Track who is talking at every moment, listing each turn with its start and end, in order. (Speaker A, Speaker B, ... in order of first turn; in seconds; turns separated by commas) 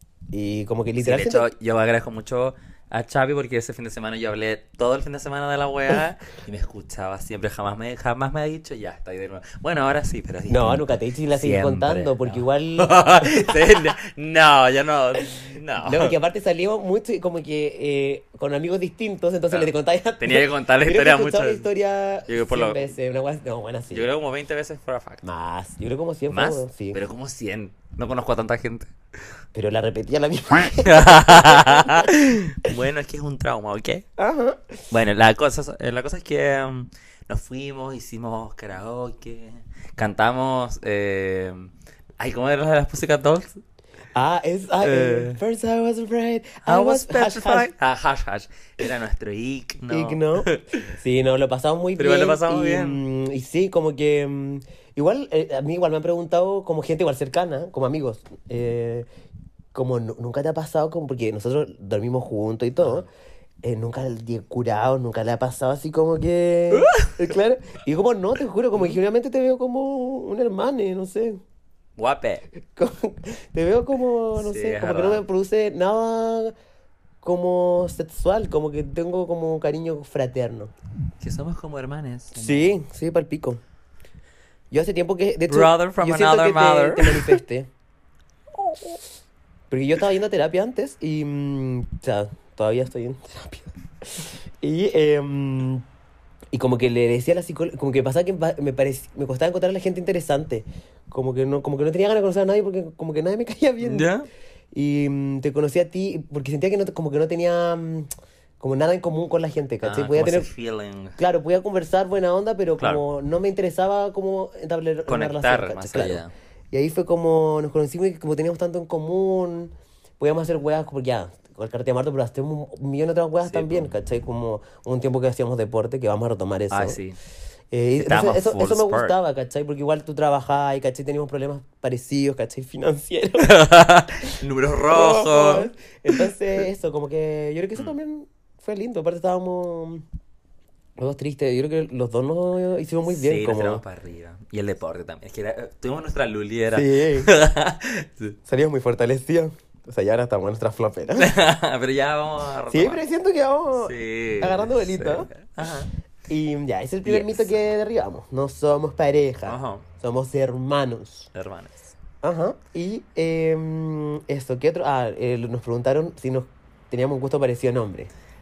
Speaker A: 0.3-1.5, Speaker B: 1.0-16.1, Speaker A: 10.5-13.9, Speaker A: 15.8-24.1, Speaker B: 19.5-21.7, Speaker B: 22.3-22.9, Speaker B: 23.9-25.2, Speaker A: 25.2-27.0, Speaker B: 26.3-28.9, Speaker A: 29.5-32.1, Speaker B: 30.8-34.0, Speaker A: 34.2-34.8, Speaker B: 34.9-43.6, Speaker A: 44.1-47.7, Speaker B: 44.8-45.4, Speaker B: 46.6-50.9, Speaker A: 49.9-59.1, Speaker B: 52.0-53.0, Speaker A: 59.7-63.0, Speaker B: 62.8-63.0, Speaker A: 63.6-71.4, Speaker B: 66.7-67.2, Speaker B: 68.7-69.0, Speaker B: 72.0-72.4, Speaker A: 72.7-76.5, Speaker B: 74.3-75.2, Speaker A: 77.2-80.7, Speaker B: 81.2-82.8, Speaker A: 82.3-83.6, Speaker A: 84.7-87.7, Speaker B: 85.5-87.4, Speaker A: 89.7-95.8, Speaker A: 96.5-104.1, Speaker B: 103.8-104.3, Speaker A: 104.7-110.5, Speaker B: 109.8-111.2, Speaker A: 111.2-127.0, Speaker B: 115.1-116.3, Speaker B: 123.4-123.9, Speaker B: 126.7-127.2, Speaker A: 127.7-133.6, Speaker B: 128.0-129.2, Speaker B: 133.4-136.2, Speaker A: 134.9-140.0, Speaker A: 141.0-143.8, Speaker B: 143.1-148.4, Speaker A: 146.7-147.3, Speaker A: 148.4-151.3, Speaker B: 151.2-153.0, Speaker A: 152.7-155.3, Speaker B: 153.7-155.9, Speaker A: 156.3-161.3, Speaker B: 157.0-157.6, Speaker B: 159.4-159.8, Speaker B: 161.3-161.9, Speaker A: 162.2-168.1